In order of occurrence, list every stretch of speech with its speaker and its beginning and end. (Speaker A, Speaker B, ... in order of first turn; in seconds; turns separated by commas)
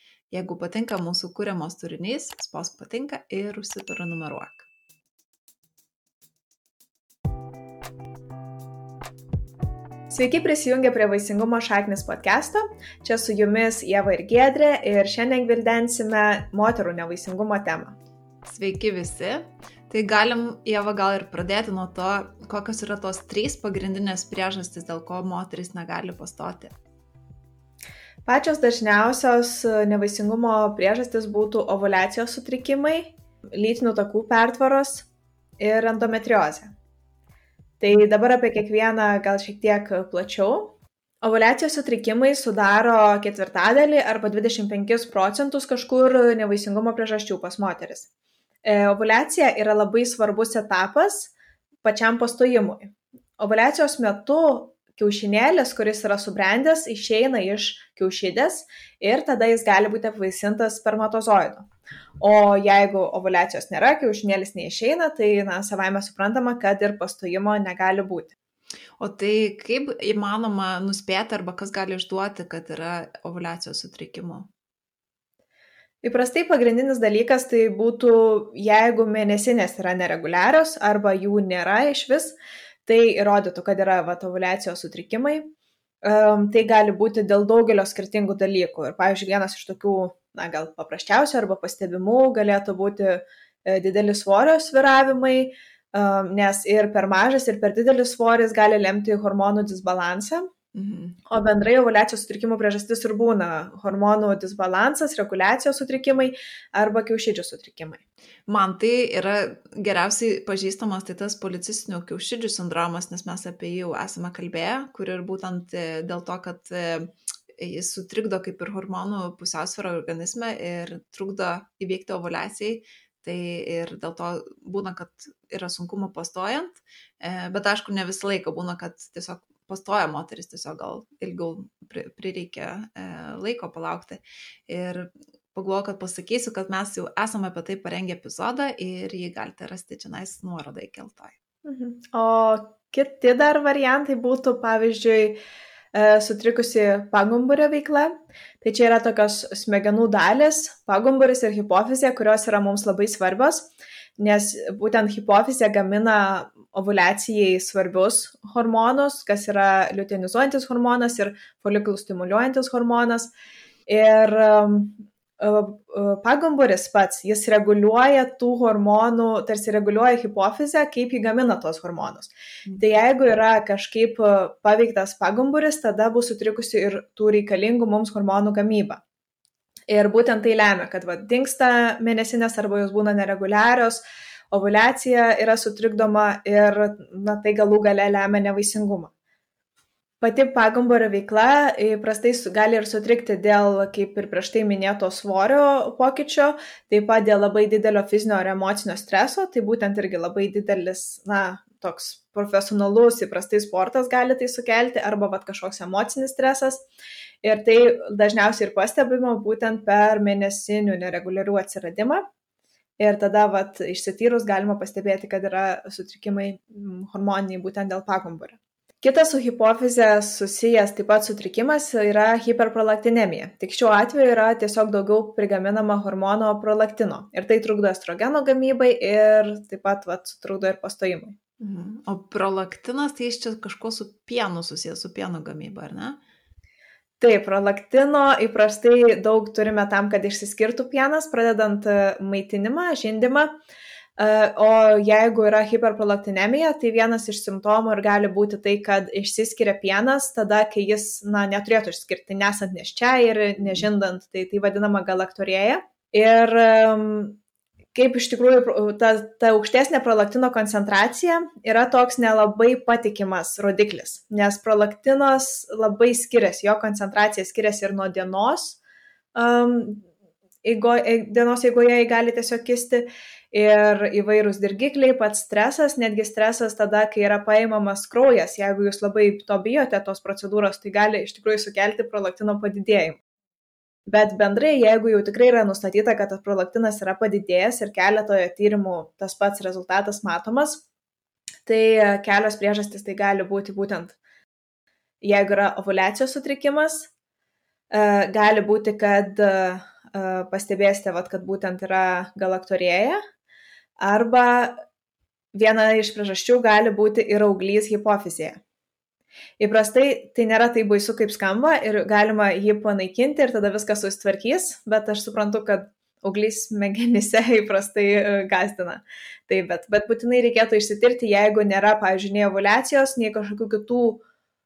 Speaker A: 0.3-4.7, Speaker B: 10.1-18.0, Speaker A: 18.4-26.7, Speaker B: 28.2-35.1, Speaker B: 35.6-36.7, Speaker B: 37.8-48.1, Speaker B: 48.6-51.3, Speaker B: 51.8-61.7, Speaker B: 62.2-68.3, Speaker A: 69.0-74.5, Speaker B: 76.0-85.5, Speaker B: 86.0-100.5, Speaker A: 100.7-101.2, Speaker B: 101.3-108.0, Speaker A: 108.5-141.3, Speaker B: 141.6-145.4, Speaker B: 145.9-163.3, Speaker B: 163.9-179.0, Speaker B: 179.9-189.1, Speaker B: 190.2-206.8, Speaker B: 207.4-212.2, Speaker B: 213.0-231.3, Speaker A: 231.6-236.2, Speaker B: 237.2-243.5, Speaker B: 244.2-257.4, Speaker B: 257.9-268.8, Speaker B: 269.3-270.0, Speaker B: 270.6-283.2, Speaker B: 284.1-290.8, Speaker B: 291.6-294.2, Speaker B: 295.2-297.1, Speaker B: 297.9-303.2, Speaker B: 304.0-304.7, Speaker B: 305.5-308.6, Speaker B: 309.6-324.2